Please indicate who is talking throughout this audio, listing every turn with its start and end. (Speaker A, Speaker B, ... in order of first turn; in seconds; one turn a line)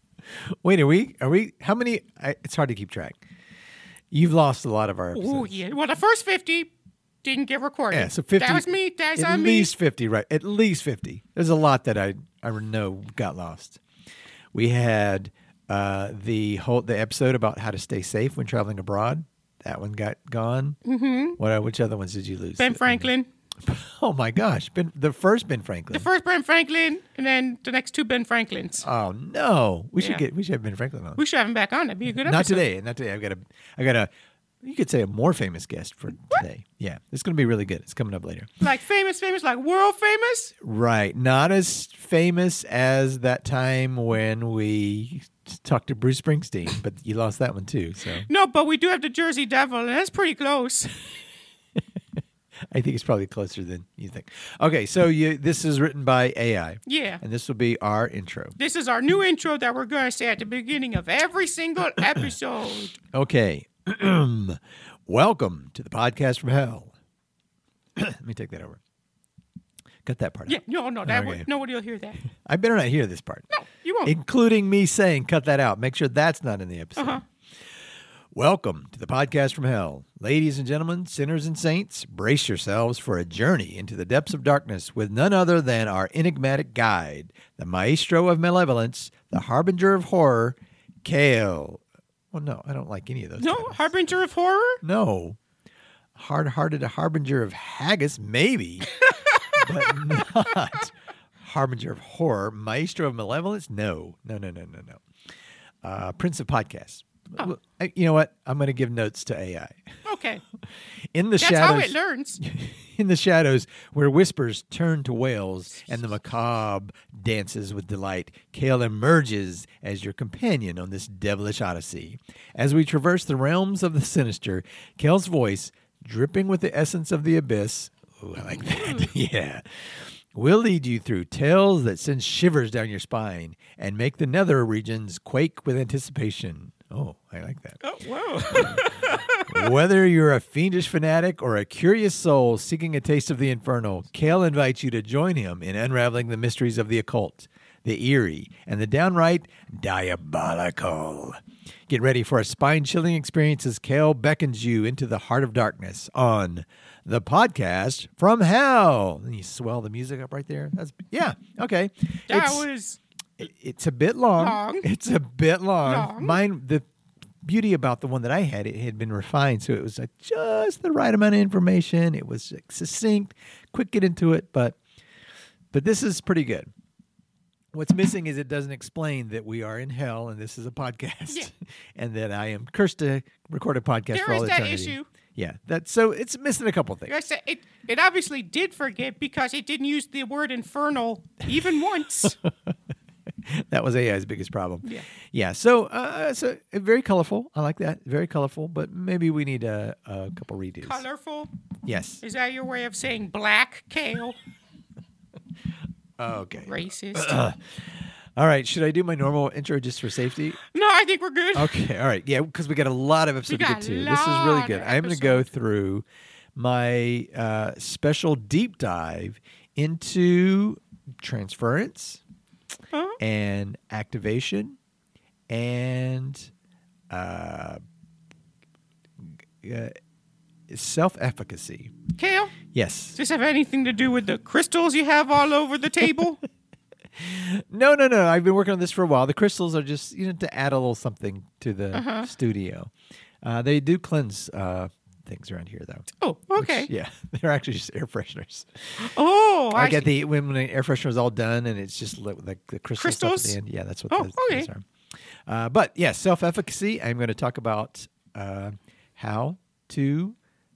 Speaker A: 0.3-3.2
Speaker A: 4.1-5.5
Speaker B: 5.1-6.7
Speaker B: 7.2-9.7
Speaker A: 7.9-13.8
Speaker A: 14.5-20.8
Speaker B: 20.9-21.4
Speaker A: 21.4-26.1
Speaker B: 22.6-23.3
Speaker B: 25.9-28.8
Speaker A: 28.8-31.2
Speaker B: 30.0-30.2
Speaker B: 31.1-32.6
Speaker A: 32.2-34.1
Speaker A: 34.6-38.5
Speaker B: 38.6-40.5
Speaker A: 40.6-48.3
Speaker B: 48.3-50.9
Speaker A: 52.7-58.5
Speaker B: 56.9-57.2
Speaker B: 58.6-63.0
Speaker A: 63.1-66.9
Speaker A: 68.0-68.8
Speaker A: 70.0-71.5
Speaker B: 70.5-72.2
Speaker A: 72.3-73.5
Speaker B: 73.5-74.1
Speaker A: 74.0-77.2
Speaker A: 78.3-93.8
Speaker B: 93.4-94.8
Speaker A: 94.8-95.4
Speaker A: 96.2-105.0
Speaker B: 99.1-99.9
Speaker A: 105.8-110.0
Speaker B: 110.0-110.4
Speaker A: 111.1-137.8
Speaker B: 111.4-112.4
Speaker B: 128.8-129.1
Speaker B: 137.8-139.7
Speaker A: 138.4-162.7
Speaker B: 162.3-163.0
Speaker A: 163.4-166.8
Speaker B: 164.4-164.8
Speaker B: 165.8-166.4
Speaker A: 167.4-174.8
Speaker A: 175.7-176.7
Speaker A: 177.7-187.1
Speaker B: 184.1-185.1
Speaker B: 187.1-192.4
Speaker A: 192.4-192.7
Speaker A: 193.4-201.0
Speaker B: 200.8-201.5
Speaker A: 201.8-202.2
Speaker B: 202.2-204.4
Speaker A: 206.2-210.6
Speaker B: 206.6-207.4
Speaker B: 210.6-211.8
Speaker A: 211.5-222.2
Speaker B: 213.5-215.4
Speaker B: 222.9-223.2
Speaker A: 223.2-224.8
Speaker A: 225.5-226.5
Speaker A: 227.1-227.8
Speaker A: 229.2-229.9
Speaker A: 230.7-231.9
Speaker B: 232.2-232.6
Speaker A: 232.7-233.2
Speaker B: 233.2-236.4
Speaker A: 237.1-249.1
Speaker B: 241.9-242.3
Speaker B: 246.2-246.9
Speaker B: 249.0-250.1
Speaker A: 249.7-254.8
Speaker B: 253.0-253.6
Speaker B: 254.1-254.7
Speaker A: 255.4-260.4